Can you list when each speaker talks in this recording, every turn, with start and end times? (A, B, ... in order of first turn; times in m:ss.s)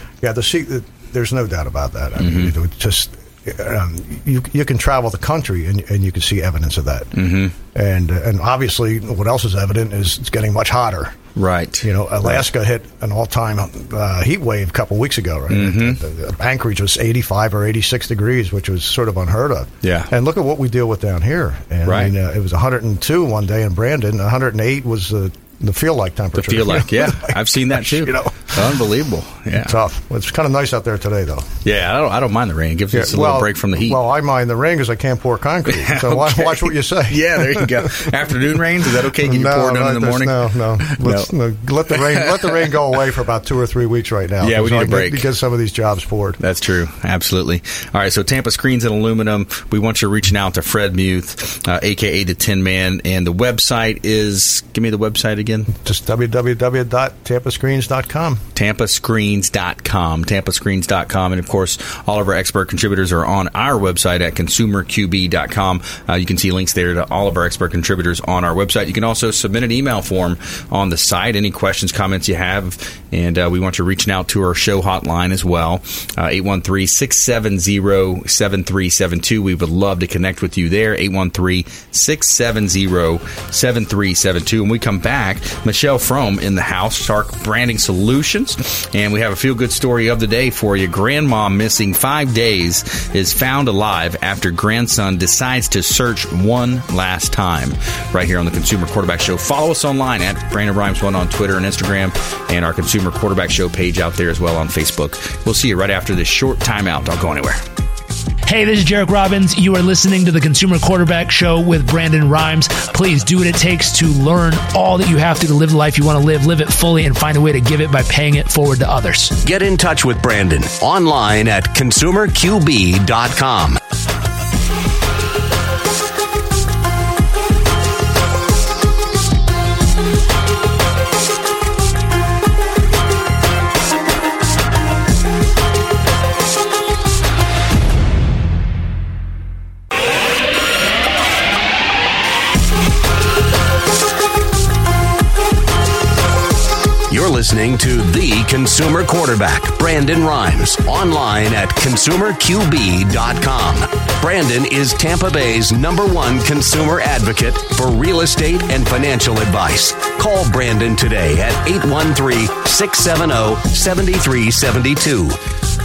0:00.2-0:11.2 A
0:02.2-0:02.5 B
0:07.2-0:07.5 B
0:11.4-0:12.4 B
0:11.8-0:28.8 A
0:15.5-0:16.0 B
0:19.8-0:20.1 B
0:21.9-0:22.1 B
0:26.4-0:29.8 B
0:29.6-0:31.5 A
0:31.6-0:34.0 B
0:32.9-0:38.1 A
0:35.7-0:41.3 B
0:39.2-0:46.4 A
0:41.9-0:42.6 B
0:44.4-0:45.3 B
0:46.4-0:55.7 B
0:55.7-0:58.4 A
0:58.6-1:47.6 B
1:48.4-1:59.3 C
1:59.4-2:03.8 D
2:27.1-2:45.4 D